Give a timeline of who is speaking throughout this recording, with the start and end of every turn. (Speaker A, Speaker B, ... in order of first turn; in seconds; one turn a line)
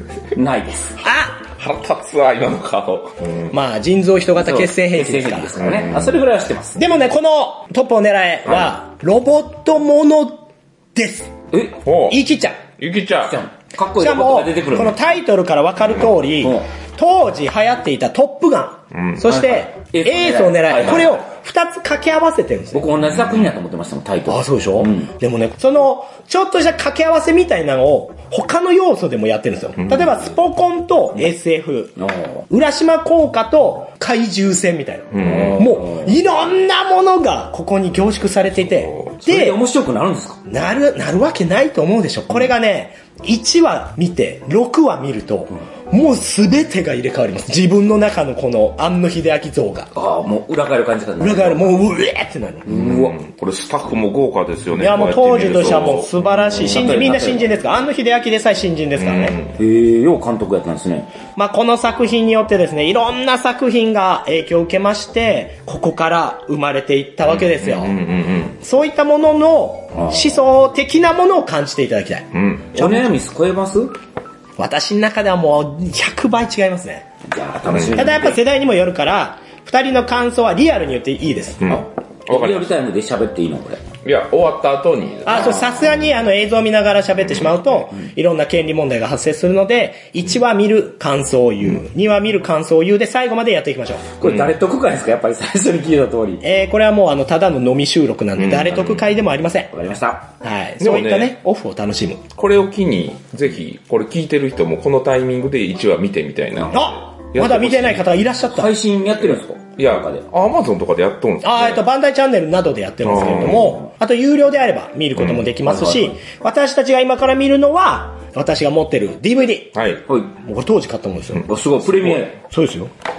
Speaker A: 0.3-1.0
Speaker B: 1.0-1.4
Speaker C: 1.6-3.5
Speaker B: 3.5-5.5
Speaker A: 4.4-6.8
Speaker C: 5.6-6.2
Speaker B: 6.8-10.4
Speaker B: 10.9-11.3
Speaker A: 11.5-11.8
Speaker C: 11.8-12.2
Speaker B: 12.1-12.6
Speaker C: 12.8-13.4
Speaker A: 13.2-15.0
Speaker B: 14.0-22.9
Speaker A: 16.4-16.6
Speaker C: 18.9-19.2
Speaker A: 19.3-21.2
Speaker A: 22.7-25.1
Speaker C: 23.1-23.5
Speaker B: 24.3-31.9
Speaker C: 29.8-30.2
Speaker A: 32.0-32.5
Speaker B: 32.5-39.6
Speaker C: 35.1-35.7
Speaker A: 35.2-36.1
Speaker C: 38.6-39.2
Speaker A: 39.2-40.4
Speaker B: 40.5-49.9
Speaker A: 49.9-51.7
Speaker B: 51.2-52.6
Speaker A: 52.6-53.2
Speaker C: 52.6-57.0
Speaker B: 54.8-59.3
Speaker A: 56.7-57.5
Speaker C: 59.0-59.6
Speaker A: 59.6-61.1
Speaker B: 61.3-68.0
Speaker C: 67.2-68.6
Speaker B: 68.6-73.1
Speaker A: 69.9-70.3
Speaker C: 72.3-72.7
Speaker A: 72.7-74.0
Speaker B: 74.6-77.1
Speaker A: 77.3-78.4
Speaker C: 77.7-78.0
Speaker B: 77.9-81.8
Speaker C: 81.6-82.7
Speaker A: 81.7-83.8
Speaker C: 84.0-85.7
Speaker B: 85.2-94.1
Speaker A: 85.3-85.8
Speaker C: 87.3-87.8
Speaker A: 94.2-96.4
Speaker C: 94.2-94.5
Speaker B: 96.4-99.7
Speaker C: 98.4-99.1
Speaker A: 99.7-100.3
Speaker B: 100.4-102.2
Speaker C: 100.8-101.4
Speaker C: 102.4-108.1
Speaker B: 106.7-108.7
Speaker A: 108.5-110.2
Speaker C: 109.3-111.8
Speaker B: 111.4-119.7
Speaker C: 113.0-113.7
Speaker A: 113.2-113.8
Speaker C: 115.2-115.8
Speaker C: 119.7-120.0
Speaker A: 120.1-120.3
Speaker B: 120.4-121.5
Speaker A: 121.4-122.3
Speaker B: 122.4-122.9